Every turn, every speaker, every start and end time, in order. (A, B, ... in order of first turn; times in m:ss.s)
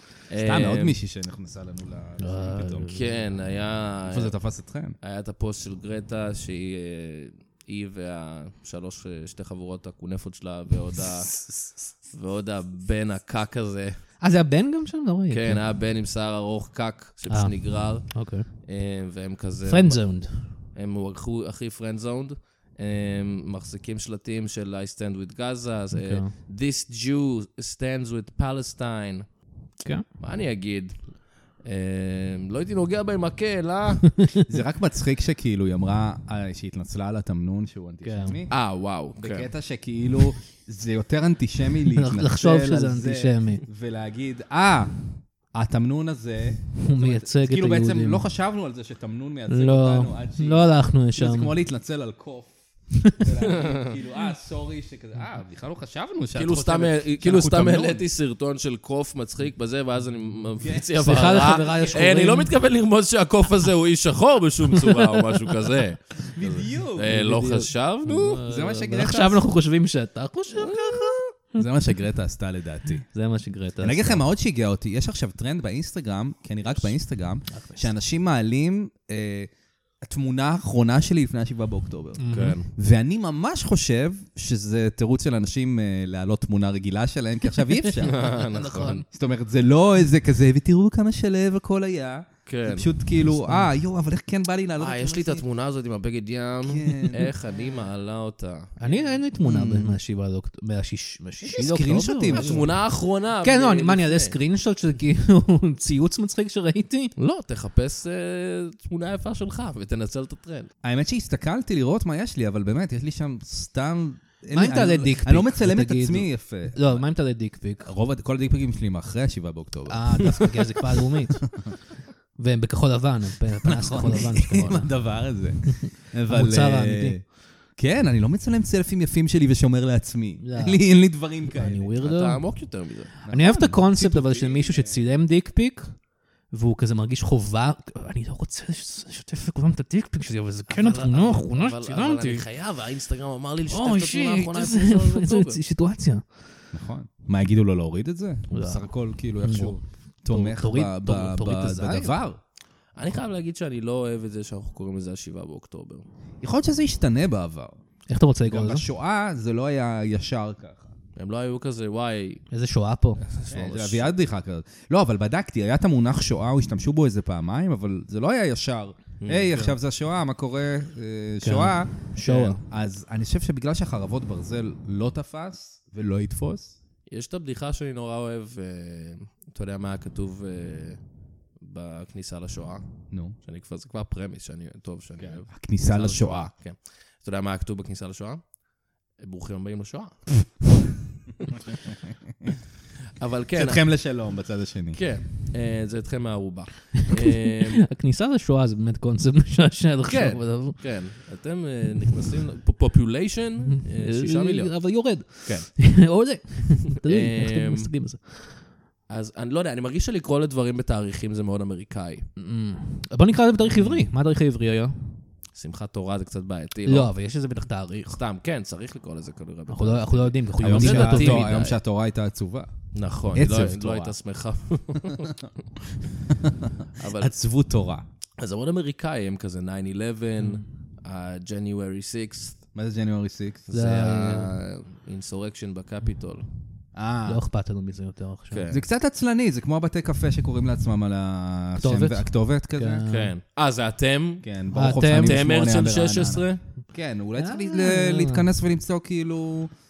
0:00.3-0:01.0 A
0:00.4-0:03.0 B
0:02.2-0:03.2 C
0:02.9-0:04.3 A
0:04.1-0:05.0 B
0:05.0-0:11.4 A
0:11.4-0:11.8 B
0:12.1-0:14.0 A
0:14.2-0:15.7 C
0:15.3-0:29.3 A
0:17.3-0:18.5 C
0:19.7-0:20.6 C
0:25.9-0:26.3 C
0:29.8-0:30.1 C
0:30.2-0:34.1 A
0:34.4-0:38.6 B
0:38.0-0:38.4 C
0:38.5-0:39.5 A
0:39.2-0:45.0 B
0:41.9-0:43.6 C
0:45.5-0:52.6 B
0:46.8-0:48.3 C
0:49.5-0:51.5 C
0:53.1-0:58.0 B
0:53.4-0:53.9 A
0:56.4-1:08.4 A
1:00.6-1:00.9 B
1:01.0-1:02.5 C
1:06.3-1:07.2 B
1:07.1-1:11.6 C
1:08.4-1:09.4 B
1:10.6-1:11.2 A
1:11.6-1:13.1 B
1:13.1-1:14.3 C
1:13.8-1:19.5 B
1:17.5-1:17.9 C
1:20.0-1:28.3 B
1:22.2-1:22.6 C
1:22.3-1:22.7 A
1:27.8-1:29.1 C
1:28.0-1:29.0 A
1:29.1-1:35.4 B
1:32.5-1:32.9 A
1:33.3-1:33.7 C
1:34.8-1:39.2 A
1:36.7-1:37.3 B
1:38.8-1:47.2 C
1:39.4-1:40.0 B
1:41.4-1:42.7 B
1:42.3-1:44.4 A
1:47.2-1:50.7 A
1:50.8-1:57.1 B
1:54.5-1:57.9 C
1:57.8-2:00.6 B
1:59.9-2:01.8 C
2:02.4-2:07.3 C
2:03.7-2:11.9 B
2:10.4-2:22.5 C
2:12.0-2:13.1 A
2:13.2-2:15.0 B
2:20.7-2:25.6 A
2:23.7-2:26.5 C
2:26.7-2:32.4 B
2:28.5-2:32.2 C
2:32.9-2:36.1 A
2:36.4-2:37.8 B
2:38.1-2:38.8 C
2:38.5-2:40.9 B
2:41.2-2:42.4 A
2:42.5-2:43.3 C
2:43.3-2:44.1 A
2:43.5-2:56.8 B
2:49.2-2:49.6 A
2:51.4-2:52.6 C
2:57.1-3:08.5 A
3:03.1-3:03.4 B
3:05.2-3:06.5 B
3:09.2-3:10.6 A
3:13.2-3:13.8 A
3:13.6-3:15.1 B
3:14.9-3:17.8 A
3:17.2-3:20.9 C
3:20.1-3:24.8 A
3:23.7-3:28.7 C
3:27.1-3:27.9 A
3:29.1-3:32.3 A
3:32.4-3:35.2 C
3:33.7-3:34.0 B
3:35.5-3:37.1 A
3:36.9-3:38.2 C
3:38.1-3:41.8 A
3:39.7-3:41.6 C
3:40.6-3:44.2 B
3:42.9-3:45.4 A
3:46.4-3:48.0 B
3:47.0-3:47.3 A
3:48.4-3:52.6 A
3:52.7-3:53.7 B
3:53.7-3:56.5 A
3:53.7-3:54.6 C
3:56.9-3:57.4 B
3:57.3-3:58.7 C
3:58.5-3:58.8 A
3:58.7-4:03.1 B
4:01.8-4:03.3 C
4:03.1-4:04.4 A
4:04.4-4:09.7 B
4:04.7-4:05.5 C
4:05.1-4:06.6 A
4:07.4-4:08.5 C